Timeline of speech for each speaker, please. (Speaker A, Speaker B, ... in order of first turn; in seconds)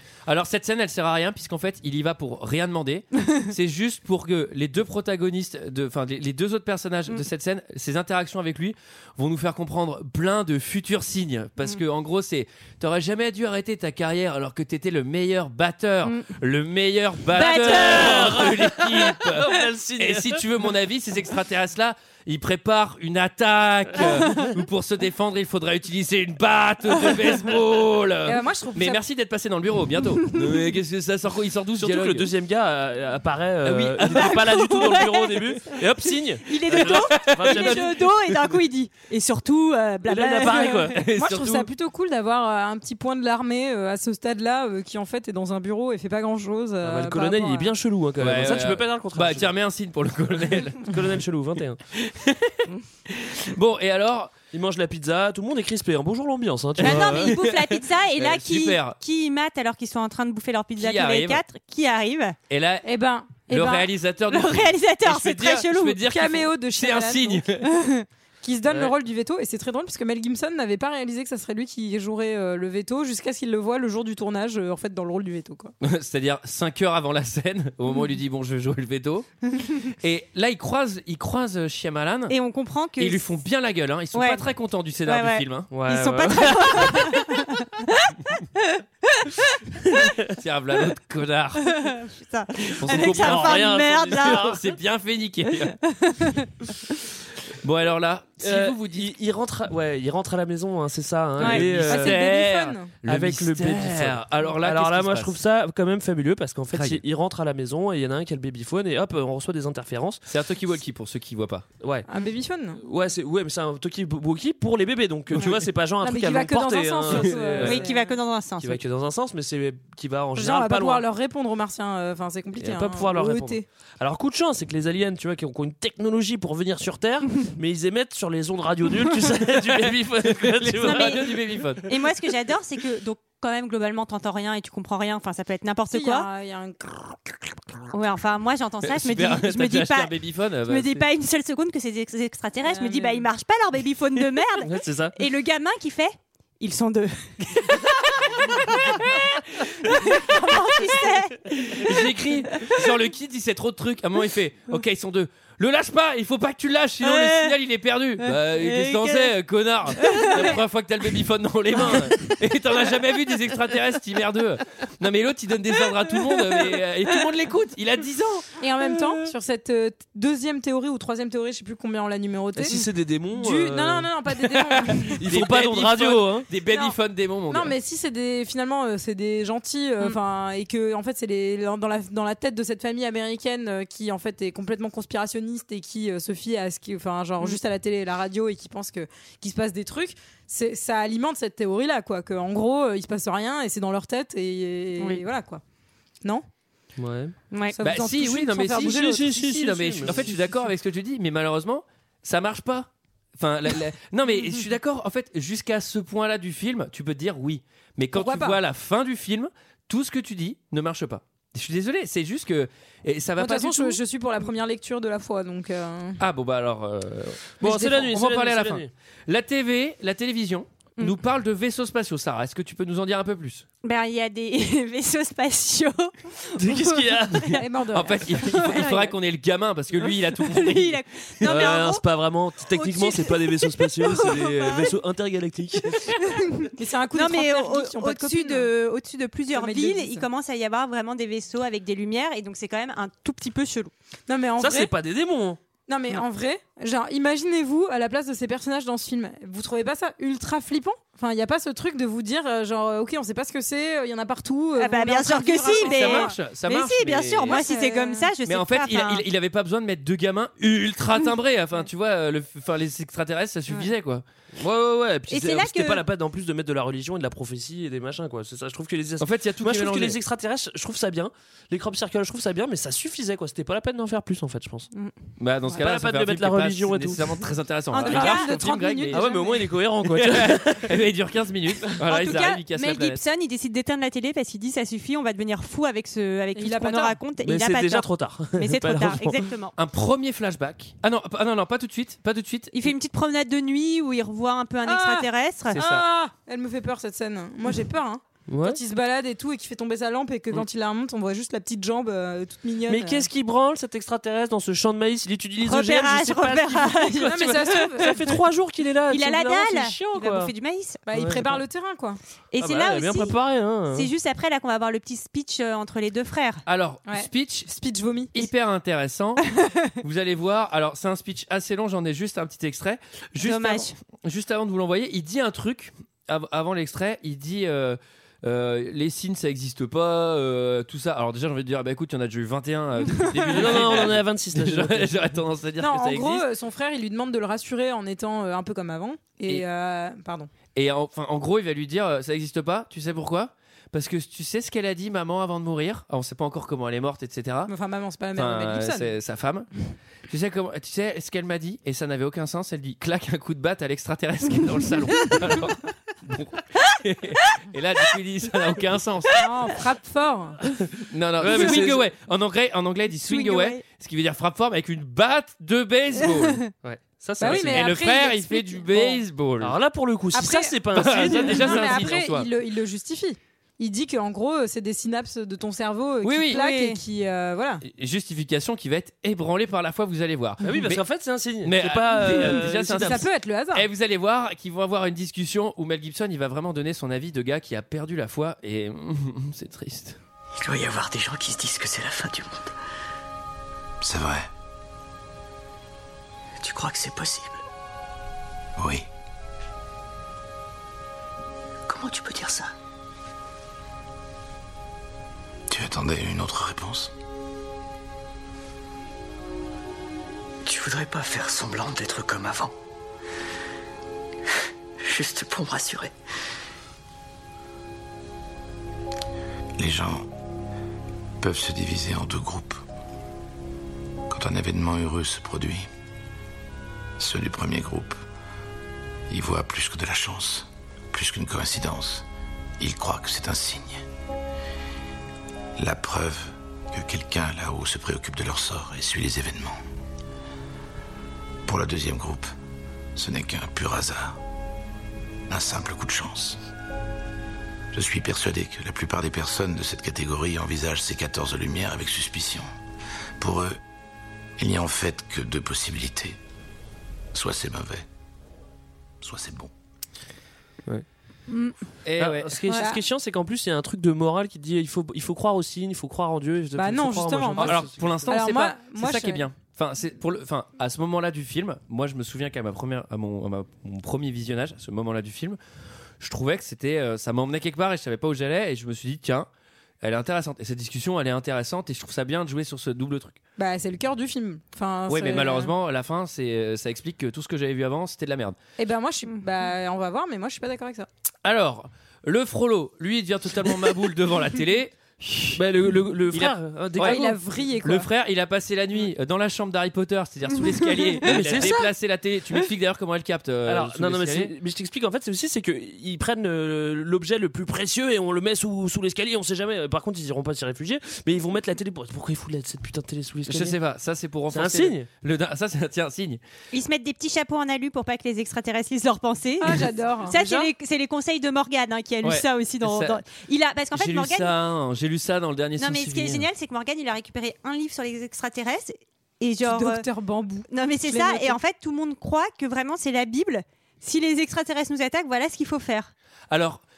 Speaker A: 0.3-32.3, 33.6-34.4, 36.7-38.0, 40.9-41.7, 48.2-50.9, 52.0-52.6, 53.1-54.3, 56.8-59.0, 60.8-61.4, 62.5-62.9, 63.5-67.6, 75.8-82.3, 83.0-85.7, 90.3-91.7, 92.8-95.8, 97.6-99.1, 101.4-105.4, 106.7-107.0, 110.2-111.7, 129.6-131.9, 138.8-141.1, 151.7-168.5, 174.7-177.7, 197.8-214.0, 216.2-223.7, 227.9-231.7, 255.8-257.6, 258.4-264.2, 269.2-270.2, 275.4-279.2, 280.1-283.2, 289.8-292.9, 295.7-296.0, 316.6-317.7, 318.3-319.4, 320.0-336.4, 340.7-347.7, 348.3-349.7, 350.3-359.4, 361.1-366.6, 367.4-369.8, 370.9-372.5, 376.2-376.6, 377.8-381.0, 381.6-390.2, 462.0-462.5, 467.6-475.6, 476.2-479.5, 480.0-483.4, 485.1-488.6, 491.4-497.3, 497.8-504.5, 513.5-516.4, 522.2-523.2, 523.9-526.5, 536.5-536.8
Speaker B: 16.0-16.3, 17.3-18.4, 34.2-35.7, 36.4-40.9, 56.8-62.4, 64.3-66.0, 67.8-68.0, 82.3-83.3, 84.1-84.5, 85.0-89.4, 91.6-94.5, 95.9-96.5, 101.4-101.6, 117.6-118.8, 130.8-131.3, 131.8-136.3, 137.9-152.0, 157.0-157.5, 158.2-159.3, 159.9-160.6, 195.0-195.2, 197.5-197.8, 223.8-227.6, 228.5-229.1, 230.0-232.0, 232.7-234.9, 236.0-243.9, 254.8-259.2, 265.3-266.0, 277.9-278.5, 282.1-289.7, 292.7-295.8, 305.6-307.7, 309.1-311.0, 312.5-313.3, 313.9-316.6, 323.4-323.9, 363.2-363.8, 376.5-377.0, 516.7-524.5, 525.8-530.0, 530.7-536.1
Speaker C: 17.5-20.4, 31.8-37.9, 40.1-41.0, 46.8-49.5, 50.8-51.8, 54.5-57.4, 85.7-86.6, 92.9-94.7, 98.4-102.2, 103.0-110.2, 111.8-112.0, 112.8-117.8, 118.6-121.0, 122.6-131.4, 144.6-145.1, 172.6-174.1, 175.2-176.5, 197.0-197.3, 198.7-200.3, 217.6-218.9, 226.6-227.6, 231.4-236.0, 244.6-245.6, 264.5-274.9, 275.7-277.5, 279.1-281.0, 287.4-289.4, 298.5-298.8, 302.9-310.5, 311.1-311.6, 312.6-314.1, 333.5-335.2, 361.4-362.1, 366.8-367.9, 369.6-372.1, 380.6-383.2, 462.2-468.3, 495.5-497.3, 501.2-501.9, 503.6-513.8, 514.5-515.1, 520.4-520.7
Speaker D: 28.2-29.0, 41.1-47.7, 62.8-63.9, 66.0-67.5, 68.4-75.7, 101.9-102.9, 112.1-112.8, 116.0-118.1, 120.3-123.6, 135.9-137.6, 142.7-143.3, 168.6-172.8, 173.3-175.2, 176.7-176.9, 177.5-195.6, 197.7-199.3, 208.1-208.6, 213.4-216.2, 217.6-217.9, 227.5-229.0, 236.7-238.7, 239.5-240.2, 244.3-244.9, 245.9-256.4, 257.5-258.3, 278.0-279.7, 286.5-287.2, 294.9-303.3, 307.1-308.4, 311.1-312.2, 317.1-318.3, 335.8-340.5, 347.7-349.1, 359.3-360.6, 367.4-369.2, 370.3-377.8, 383.0-383.9, 462.7-463.0, 466.8-469.4, 483.6-485.7, 488.8-491.1, 497.0-498.1, 519.6-520.4, 529.6-531.6
Speaker E: 390.6-392.7, 396.6-397.6, 401.9-402.7, 410.6-412.7, 415.0-416.1
Speaker F: 394.0-394.5, 398.8-399.1, 405.7-407.1, 419.8-420.3, 421.4-422.8, 424.3-425.9, 427.2-428.2, 429.3-432.2, 432.8-434.0, 435.8-439.8, 441.6-442.5, 443.1-444.4, 445.5-446.6, 447.9-452.7, 453.4-453.8, 454.6-456.4, 457.3-458.1, 459.2-459.7